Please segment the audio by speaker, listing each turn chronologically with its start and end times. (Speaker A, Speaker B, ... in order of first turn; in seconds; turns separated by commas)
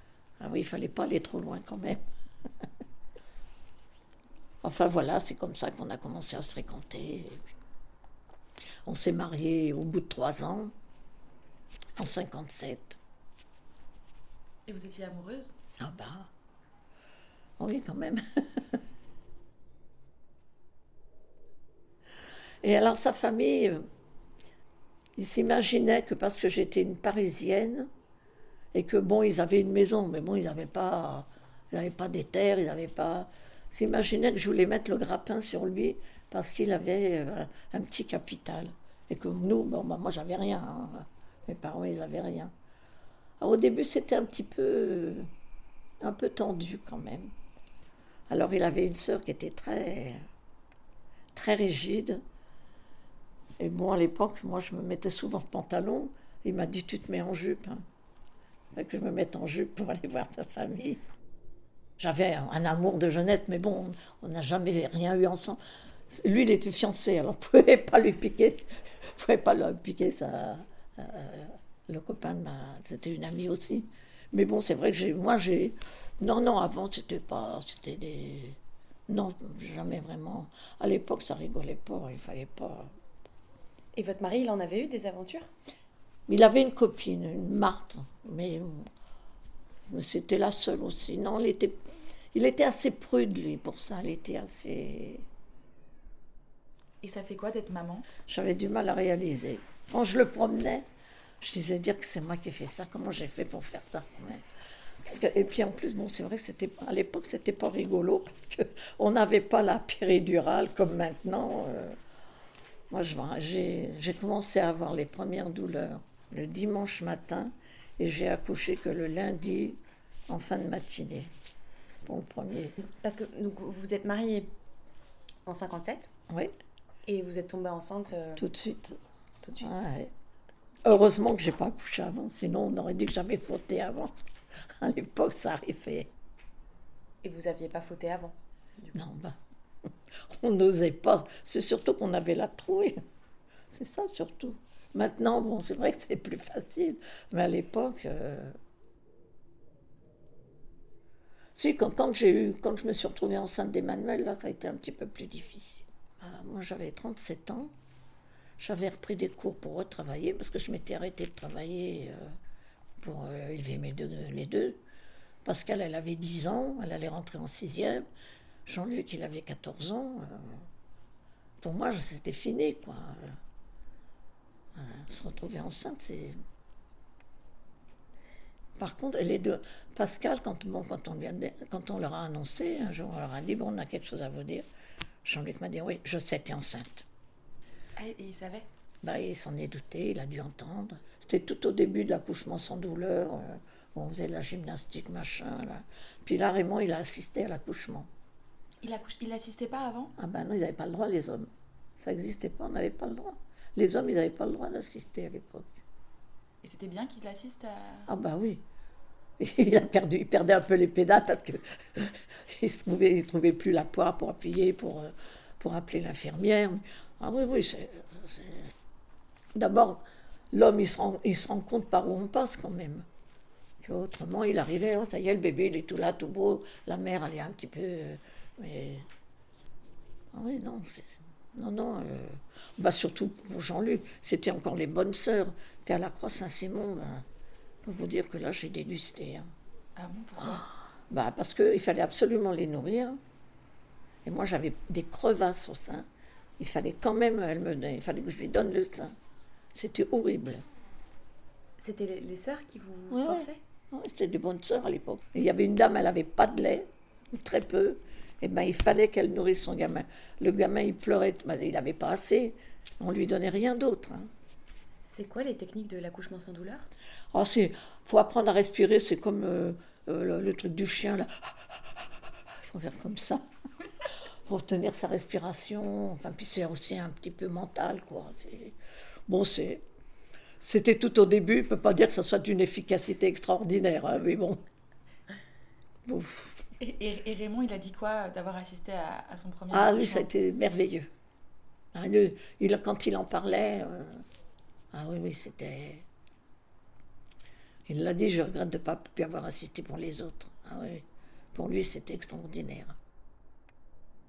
Speaker A: 0.4-2.0, Speaker A: 4.6-7.4, Speaker A: 8.8-10.7, Speaker A: 12.0-13.0, Speaker B: 14.7-15.6, Speaker A: 15.8-16.3, Speaker A: 17.6-18.8, Speaker A: 22.6-23.8, Speaker A: 25.2-27.9, Speaker A: 28.7-42.5, Speaker A: 43.4-45.3, Speaker A: 46.0-47.3, Speaker A: 48.3-50.2, Speaker A: 51.3-52.2, Speaker A: 53.6-57.8, Speaker A: 58.7-61.0, Speaker A: 62.0-65.6, Speaker A: 66.1-78.6, Speaker A: 79.1-82.9, Speaker C: 83.9-85.5, Speaker A: 86.3-88.9, Speaker A: 89.9-91.8, Speaker A: 92.3-95.2, Speaker B: 97.0-98.1, Speaker A: 98.3-100.8, Speaker A: 101.4-104.4, Speaker A: 105.0-112.0, Speaker A: 112.9-119.8, Speaker A: 120.3-121.3, Speaker A: 122.0-122.8, Speaker C: 122.8-124.5, Speaker C: 125.5-126.1, Speaker C: 127.0-128.4, Speaker A: 128.4-129.0, Speaker C: 129.4-129.7, Speaker A: 129.6-130.1, Speaker A: 130.8-134.1, Speaker A: 134.8-136.1, Speaker C: 137.2-138.9, Speaker A: 138.9-139.4, Speaker A: 140.3-143.0, Speaker A: 143.7-148.6, Speaker A: 151.6-157.7, Speaker A: 158.6-162.3, Speaker A: 163.0-164.8, Speaker A: 165.4-168.0, Speaker A: 168.7-170.6, Speaker A: 171.6-173.3, Speaker A: 174.8-176.4, Speaker A: 178.8-184.7, Speaker A: 185.2-187.0, Speaker B: 188.0-188.7, Speaker A: 189.0-198.1, Speaker B: 198.8-200.1, Speaker A: 200.2-205.8, Speaker B: 206.6-208.1, Speaker A: 208.1-208.6, Speaker A: 209.4-218.7, Speaker A: 219.6-220.0, Speaker A: 220.5-223.0, Speaker A: 223.8-229.0, Speaker A: 230.3-237.2, Speaker A: 237.8-239.5, Speaker B: 239.9-240.7, Speaker A: 240.4-243.2, Speaker A: 244.2-246.1, Speaker A: 246.6-249.1, Speaker A: 249.7-250.6, Speaker C: 251.8-253.6, Speaker A: 253.1-264.3, Speaker C: 265.0-266.9, Speaker A: 267.3-271.8, Speaker A: 272.6-273.4, Speaker A: 274.5-278.7, Speaker A: 279.3-279.8, Speaker A: 280.6-284.6, Speaker A: 286.1-286.6, Speaker B: 286.8-290.3, Speaker A: 289.7-291.1, Speaker A: 291.9-294.2, Speaker A: 294.9-296.1, Speaker A: 297.9-302.9